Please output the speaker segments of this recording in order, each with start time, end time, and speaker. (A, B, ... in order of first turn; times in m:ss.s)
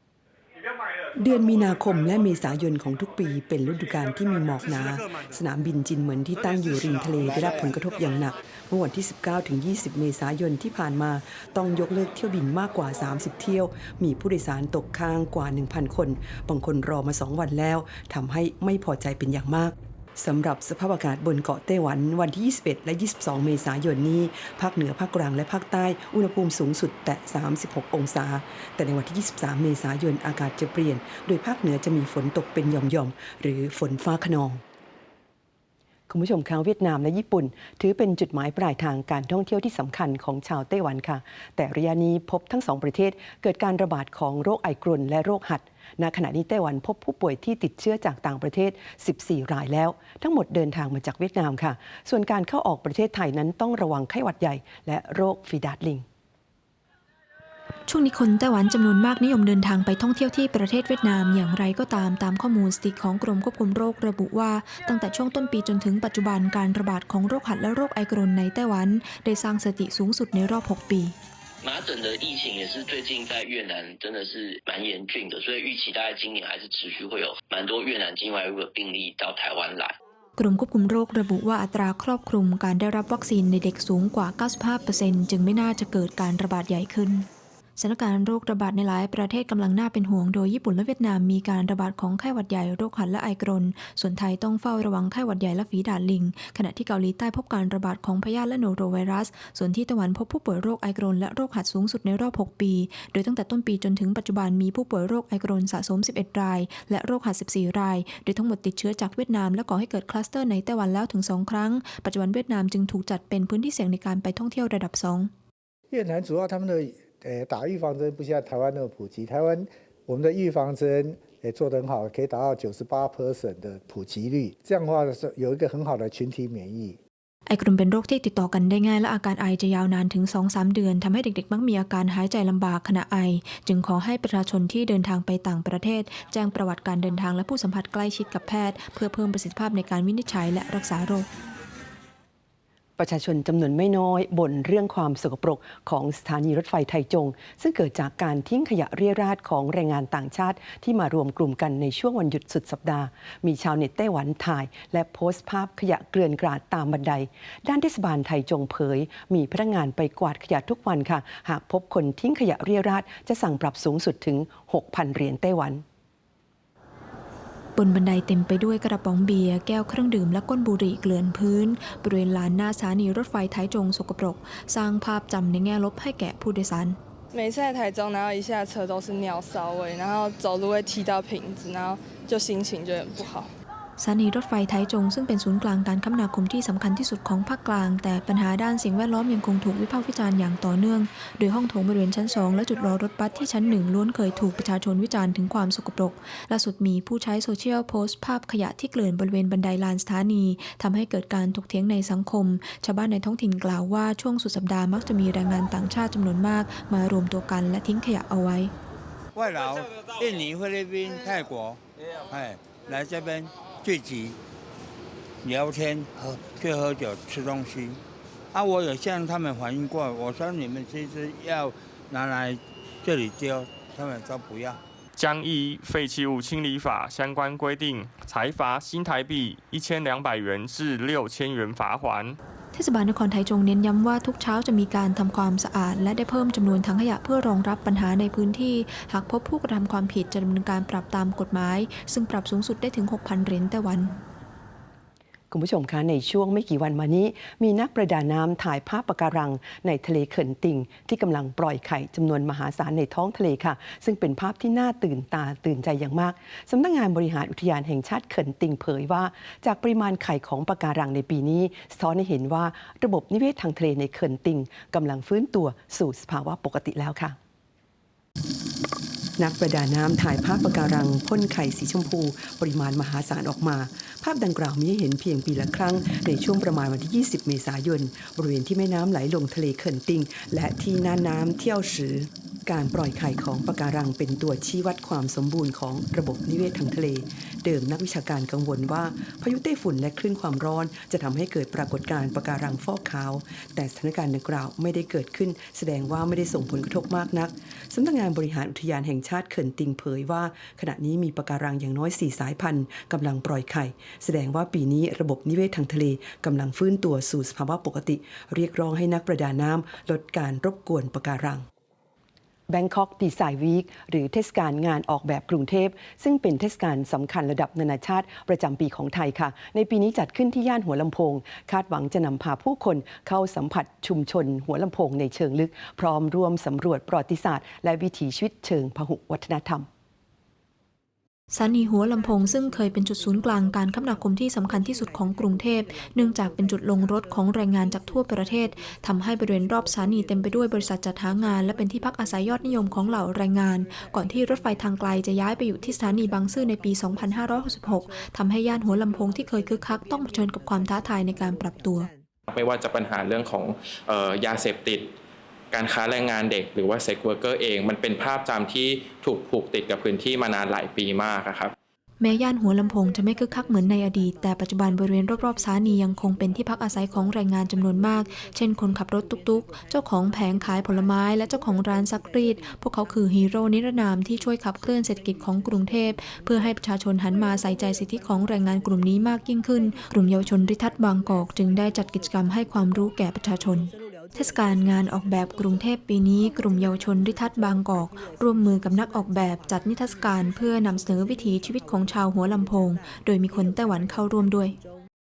0:01.2-0:34.6 A
0:36.1-0:56.0 A
0:57.9-1:11.1 B
1:11.6-1:20.0 C
1:20.4-1:55.3 B
1:55.9-2:07.0 D
2:07.5-2:21.3 B
2:23.0-2:45.8 A
2:47.8-2:57.0 B
2:57.3-3:03.5 E
3:04.0-3:28.7 B
3:29.3-3:34.4 F
3:35.4-3:38.0 F
3:38.5-3:44.8 F
3:45.2-3:52.4 G
3:52.7-4:04.1 B
4:05.5-4:27.4 A
4:29.4-5:11.6 A
5:12.7-5:29.9 A
5:31.5-5:52.1 B
5:52.5-5:55.1 H
5:55.7-6:01.7 H
6:02.2-6:34.8 B